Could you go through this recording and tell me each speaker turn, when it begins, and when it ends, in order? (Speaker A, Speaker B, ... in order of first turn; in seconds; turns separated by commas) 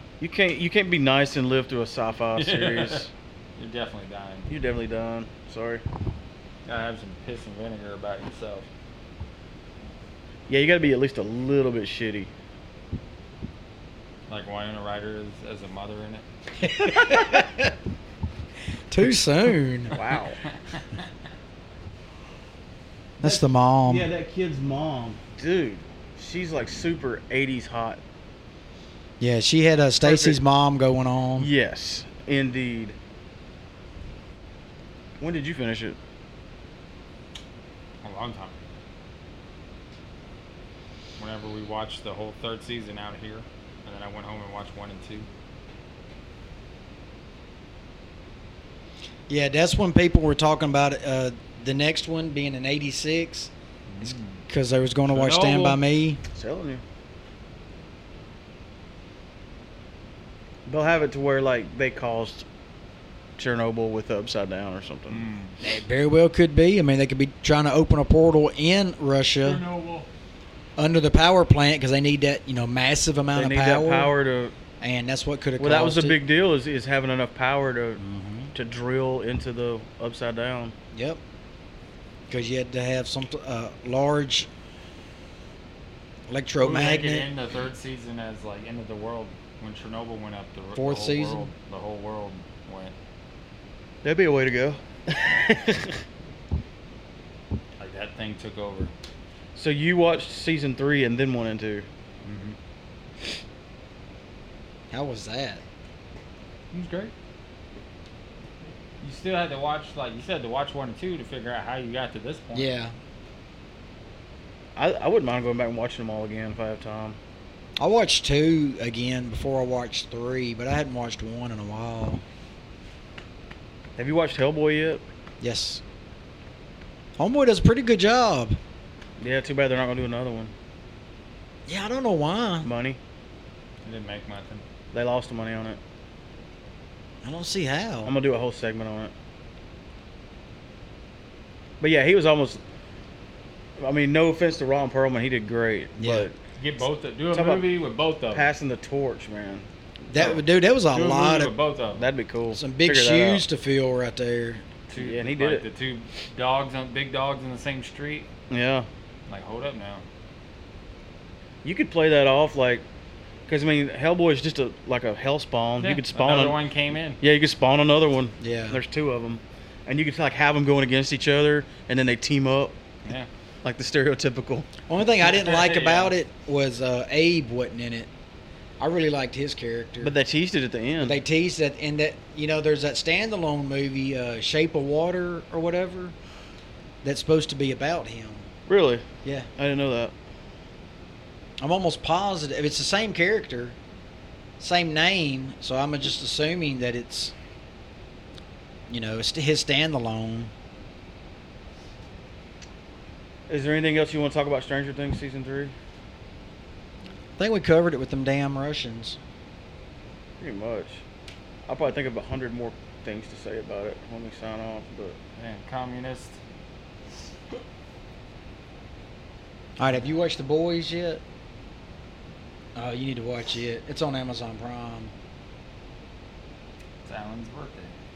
Speaker A: 0.2-3.1, Speaker B: 2.4-4.5, Speaker A: 4.5-5.8, Speaker B: 6.7-8.7, Speaker A: 10.5-12.3, Speaker B: 14.3-16.2, Speaker C: 16.6-17.7, Speaker C: 18.9-19.9, Speaker A: 19.9-20.4, Speaker B: 20.8-21.0, Speaker C: 23.2-24.1, Speaker A: 23.2-28.0, Speaker C: 29.2-31.5, Speaker A: 30.0-30.4, Speaker A: 31.4-33.0, Speaker A: 35.2-36.0, Speaker B: 38.0-38.6, Speaker B: 41.2-45.3, Speaker C: 49.3-53.5, Speaker B: 53.9-54.4, Speaker C: 54.0-56.2, Speaker B: 55.1-55.8, Speaker A: 56.4-56.8, Speaker A: 60.7-62.5, Speaker A: 63.4-65.2, Speaker B: 65.1-65.6, Speaker C: 65.6-69.6, Speaker B: 69.4-70.1, Speaker C: 70.8-74.2, Speaker A: 73.3-74.5, Speaker C: 74.8-76.2, Speaker A: 75.6-78.0, Speaker C: 78.0-78.5, Speaker A: 78.5-80.8, Speaker C: 80.9-81.2, Speaker C: 82.3-84.5, Speaker C: 86.3-87.3, Speaker B: 86.6-93.0, Speaker C: 90.7-91.5, Speaker A: 94.0-96.0, Speaker B: 97.8-98.9, Speaker A: 99.5-101.9, Speaker B: 102.2-102.6, Speaker C: 104.9-105.6, Speaker B: 106.7-107.1, Speaker B: 109.0-112.7, Speaker C: 112.5-112.9, Speaker A: 114.8-117.2, Speaker C: 117.8-122.2, Speaker A: 124.0-125.0, Speaker C: 125.4-125.8, Speaker C: 127.2-128.6, Speaker A: 129.2-130.5, Speaker C: 131.7-132.7, Speaker A: 132.6-133.0, Speaker B: 133.8-134.6, Speaker A: 134.9-135.8, Speaker C: 137.2-138.1, Speaker A: 138.1-139.1, Speaker A: 141.8-142.6, Speaker A: 143.8-146.4, Speaker C: 146.0-146.3, Speaker B: 146.6-148.5, Speaker A: 147.3-147.7, Speaker A: 148.3-149.7, Speaker C: 150.1-151.6, Speaker B: 150.2-152.1, Speaker A: 151.9-153.4, Speaker C: 152.5-154.6, Speaker B: 154.9-158.3, Speaker A: 154.9-155.7, Speaker A: 158.5-158.9, Speaker B: 159.3-160.1, Speaker A: 161.6-162.8, Speaker A: 163.5-166.6, Speaker B: 165.8-167.2, Speaker A: 167.2-172.8, Speaker C: 168.4-168.8, Speaker A: 173.6-174.7, Speaker C: 174.9-178.1, Speaker B: 175.2-176.2, Speaker C: 178.8-180.2, Speaker A: 180.0-181.2, Speaker C: 181.0-186.2, Speaker C: 187.0-188.5, Speaker A: 188.7-189.1, Speaker A: 189.6-190.1, Speaker C: 191.6-193.8, Speaker C: 194.6-197.3, Speaker C: 198.9-200.5, Speaker A: 203.5-205.8, Speaker C: 207.4-209.2, Speaker A: 210.4-211.1, Speaker A: 211.7-215.2, Speaker B: 215.4-216.4, Speaker C: 219.8-221.2, Speaker C: 222.8-225.1, Speaker B: 227.0-227.9